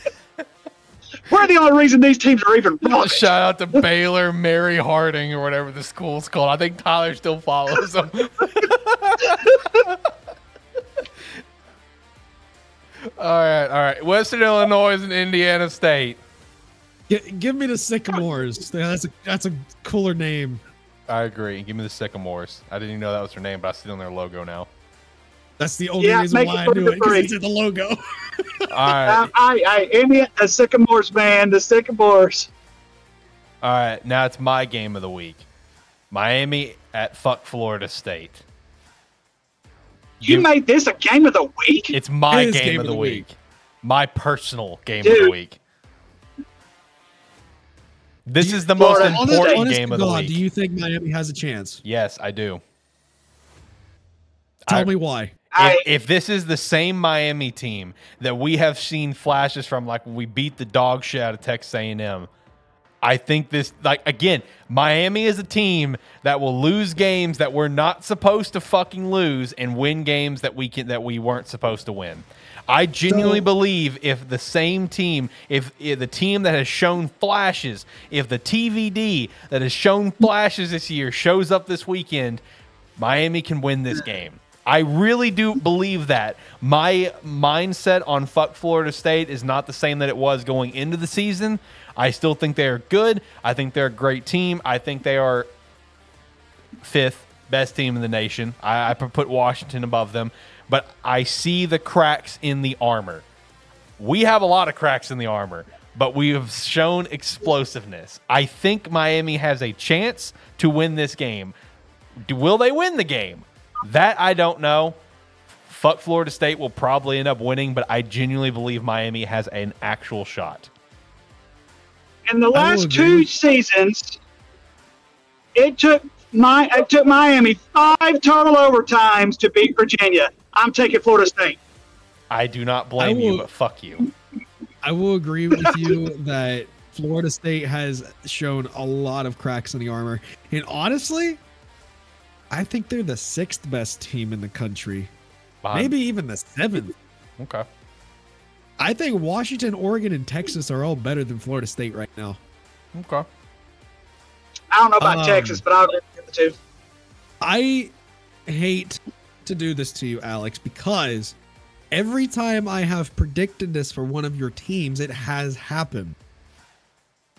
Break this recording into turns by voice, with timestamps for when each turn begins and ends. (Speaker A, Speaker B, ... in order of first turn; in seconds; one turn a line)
Speaker A: 1.3-3.8
Speaker B: 2.8-10.0
Speaker B: 13.2-16.2
Speaker C: 17.1-20.6
Speaker B: 21.1-24.7
Speaker C: 25.6-28.7
Speaker A: 26.0-27.3
Speaker B: 28.7-29.3
Speaker A: 29.1-32.5
Speaker B: 33.6-35.5
Speaker B: 36.1-38.4
Speaker B: 40.2-40.5
Speaker A: 40.2-42.0
Speaker B: 41.9-45.6
Speaker C: 42.3-43.2
Speaker A: 45.0-45.3
Speaker B: 48.3-50.4
Speaker C: 48.4-51.8
Speaker A: 48.8-49.6
Speaker B: 51.8-52.6
Speaker B: 54.7-54.9
Speaker C: 54.7-55.3
Speaker A: 55.5-55.9
Speaker B: 55.6-62.3
Speaker B: 63.0-82.4
Speaker C: 73.1-73.4
Speaker B: 83.0-95.5
Speaker B: 96.8-103.3
Speaker B: 104.0-111.5
Speaker B: 112.3-115.0
Speaker B: 115.7-120.7
Speaker A: 122.3-124.2
Speaker C: 122.5-123.3
Speaker A: 125.5-131.6
Speaker B: 132.3-134.1
Speaker C: 133.0-133.5
Speaker C: 134.8-141.4
Speaker C: 142.5-145.1
Speaker B: 145.6-145.9
Speaker C: 145.7-146.9
Speaker B: 147.4-147.7
Speaker C: 148.8-152.4
Speaker B: 152.9-153.3
Speaker A: 154.7-156.6
Speaker C: 155.0-155.6
Speaker C: 157.4-157.9
Speaker C: 158.5-161.4
Speaker C: 161.9-166.2